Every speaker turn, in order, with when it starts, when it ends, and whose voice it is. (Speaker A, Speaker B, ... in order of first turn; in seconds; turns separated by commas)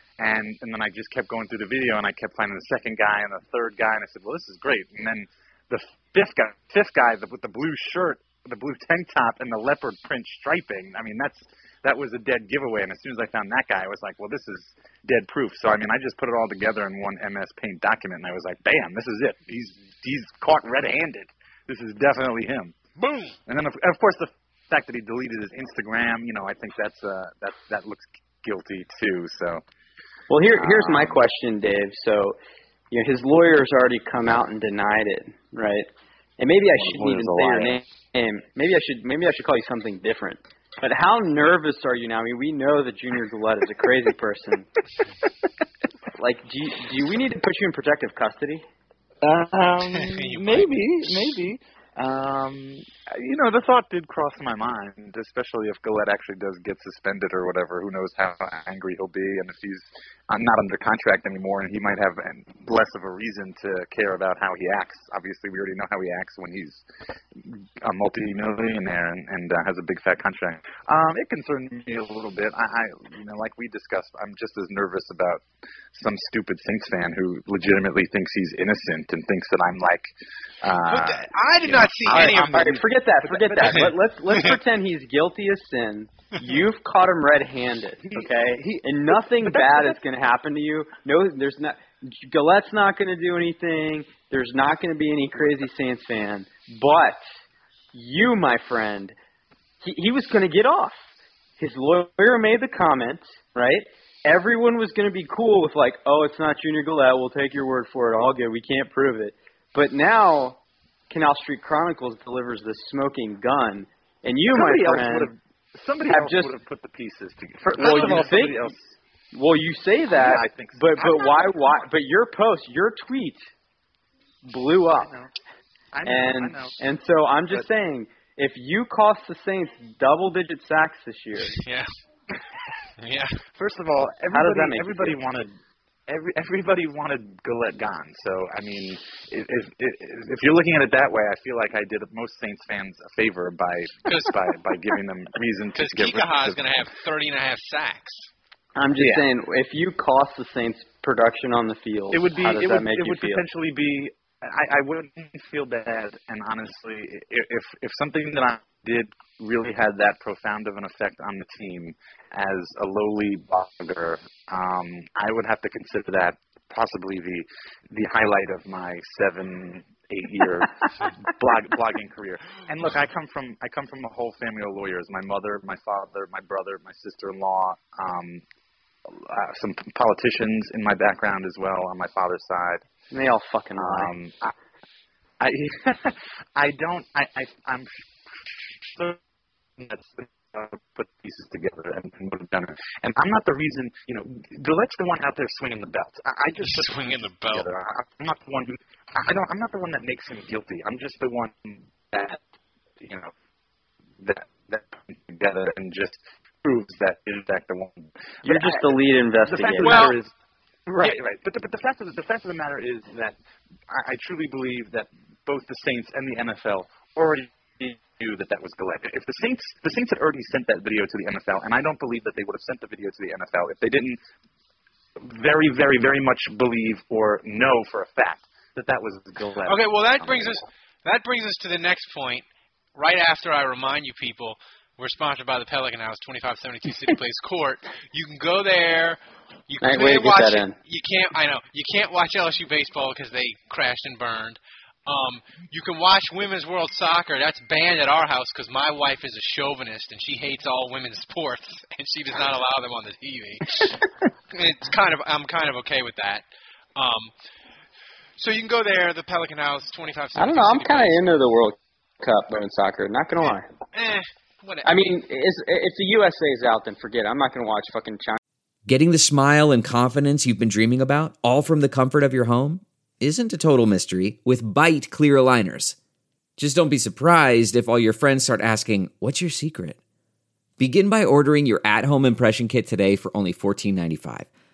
Speaker A: 0.2-22.7, Speaker B: 23.0-23.4, Speaker A: 23.5-29.6, Speaker C: 30.3-32.4, Speaker A: 30.5-31.2, Speaker C: 32.9-44.7, Speaker A: 36.7-37.8, Speaker C: 46.1-48.6, Speaker A: 49.2-66.8, Speaker B: 49.9-51.1, Speaker A: 67.4-84.0, Speaker B: 80.8-82.7, Speaker C: 82.1-97.2, Speaker B: 83.6-84.5, Speaker A: 88.0-90.0, Speaker C: 97.9-99.1, Speaker C: 99.8-101.0, Speaker C: 101.6-115.3, Speaker A: 114.5-118.8, Speaker C: 116.1-116.5, Speaker C: 117.7-118.8, Speaker B: 117.8-118.3, Speaker C: 119.3-123.4, Speaker A: 120.1-121.4, Speaker C: 124.5-125.1, Speaker A: 125.9-126.8, Speaker C: 126.0-131.6, Speaker B: 131.6-131.9, Speaker B: 133.0-133.4, Speaker A: 133.6-146.6, Speaker C: 134.3-135.2, Speaker B: 144.1-144.4, Speaker B: 145.7-148.3, Speaker C: 148.8-153.4, Speaker A: 148.9-149.2, Speaker A: 152.1-178.4, Speaker A: 179.1-182.8, Speaker C: 183.1-184.1, Speaker A: 183.8-184.5, Speaker A: 185.4-189.2, Speaker A: 189.8-202.4, Speaker B: 196.6-197.7, Speaker A: 203.0-203.3, Speaker A: 204.2-208.9, Speaker C: 208.4-210.2, Speaker A: 209.5-210.3, Speaker B: 209.8-210.2, Speaker A: 210.9-213.4, Speaker A: 213.9-224.2, Speaker A: 225.2-230.6, Speaker B: 229.7-254.0, Speaker C: 239.8-240.7, Speaker B: 254.5-256.4, Speaker B: 256.9-257.3, Speaker B: 258.4-261.3, Speaker C: 260.4-263.7, Speaker B: 263.9-265.2, Speaker C: 264.8-268.4, Speaker D: 268.9-275.9, Speaker D: 276.6-280.0, Speaker D: 280.8-284.5